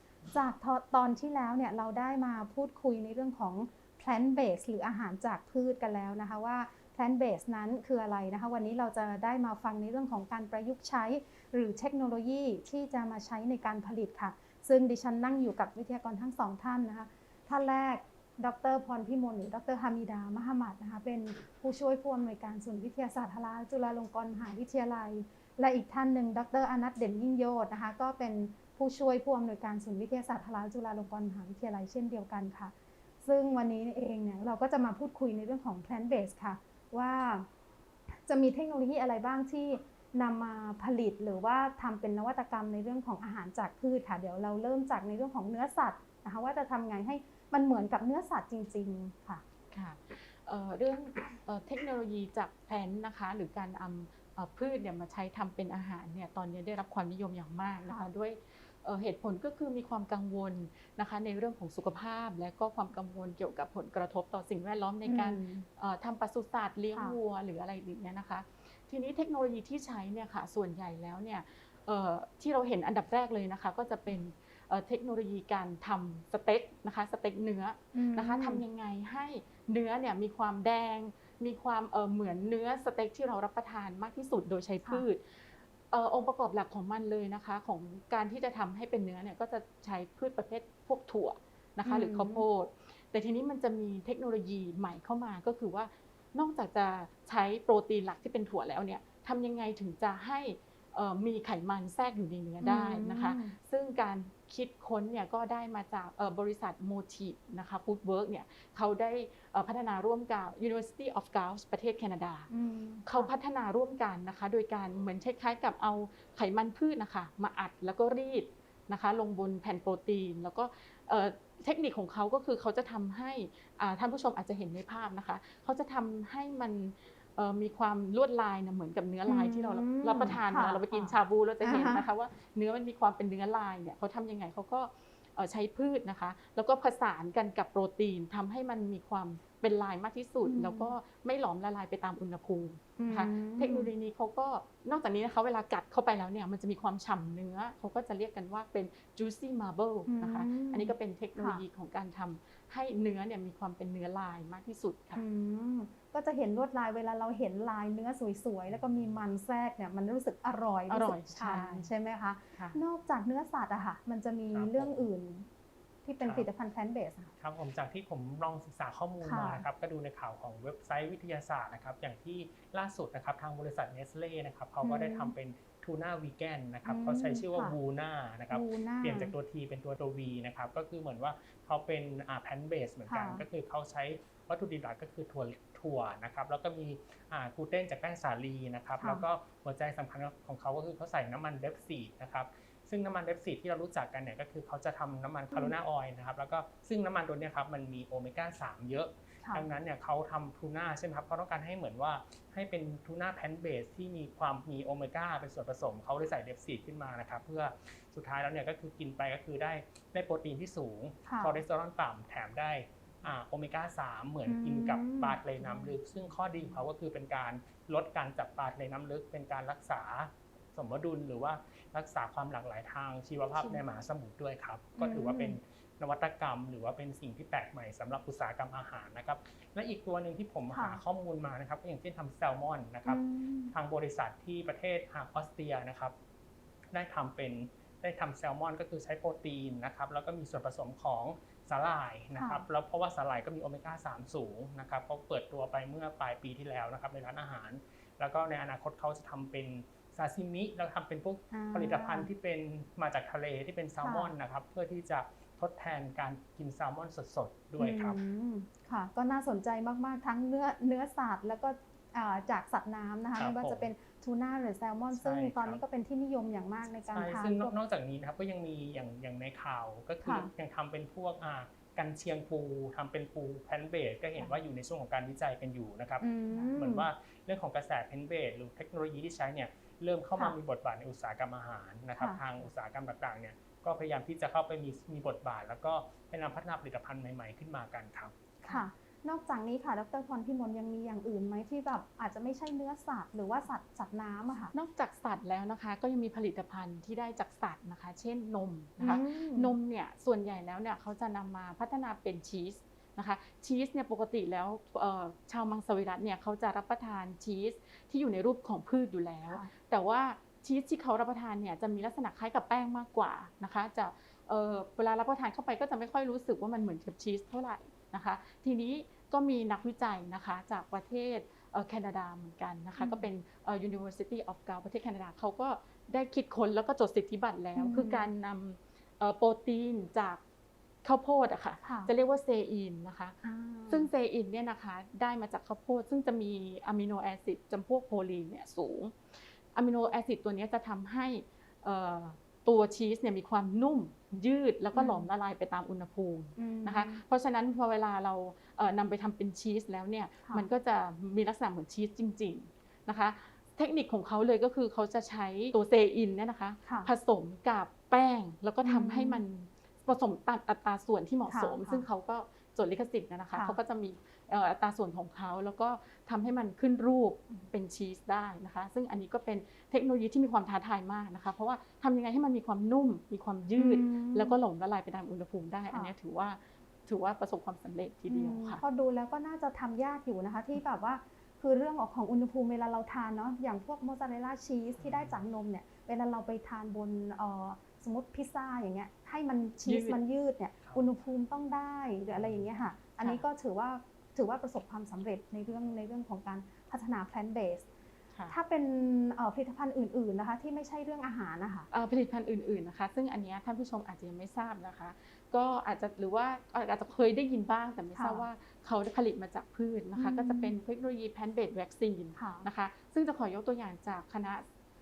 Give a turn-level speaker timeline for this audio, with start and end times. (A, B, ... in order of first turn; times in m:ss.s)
0:00.3-0:37.5 A
0:38.1-0:49.4 A
0:49.7-1:52.5 B
1:05.1-1:05.7 A
1:17.9-1:18.6 A
1:31.8-1:32.4 A
1:42.6-1:43.6 A
1:52.5-1:53.3 A
1:53.0-2:35.2 B
2:09.3-2:12.0 A
2:20.4-2:20.9 A
2:23.0-2:23.9 A
2:30.0-2:31.6 A
2:35.2-2:45.5 A
2:40.9-2:41.9 B
2:44.5-2:45.1 C
2:46.0-2:47.3 A
2:47.4-3:56.1 C
2:49.2-2:49.6 A
2:54.8-2:55.4 A
2:56.8-2:57.8 A
2:58.5-2:59.3 A
3:03.1-3:03.4 A
3:09.0-3:09.2 A
3:19.4-3:19.7 A
3:31.2-3:31.6 A
3:34.4-3:36.0 A
3:45.0-3:45.6 A
3:50.7-3:51.0 A
3:53.0-3:53.7 A
3:56.9-4:18.2 C
4:02.3-4:02.6 A
4:11.5-4:12.3 A
4:14.0-4:14.3 A
4:17.8-4:27.7 A
4:23.4-4:23.9 C
4:25.2-4:25.8 C
4:27.1-4:48.3 C
4:30.2-4:30.5 A
4:36.2-4:37.1 A
4:48.6-4:54.7 A
4:54.7-5:30.4 B
4:59.0-4:59.7 A
5:23.0-5:23.2 A
5:27.8-5:28.3 A
5:31.0-5:33.4 B
5:31.8-5:32.1 A
5:33.4-5:34.1 A
5:33.9-6:18.8 B
5:44.9-5:45.3 A
5:46.6-5:47.2 A
5:56.8-5:57.1 A
5:58.8-5:59.4 A
6:01.5-6:02.0 A
6:13.8-6:14.6 A
6:18.3-6:37.9 A
6:25.0-6:25.4 C
6:29.8-6:30.2 B
6:32.3-6:32.6 C
6:38.5-6:41.9 A
6:41.9-6:54.6 B
6:48.1-6:48.4 A
6:50.2-6:50.7 A
6:52.4-6:52.7 A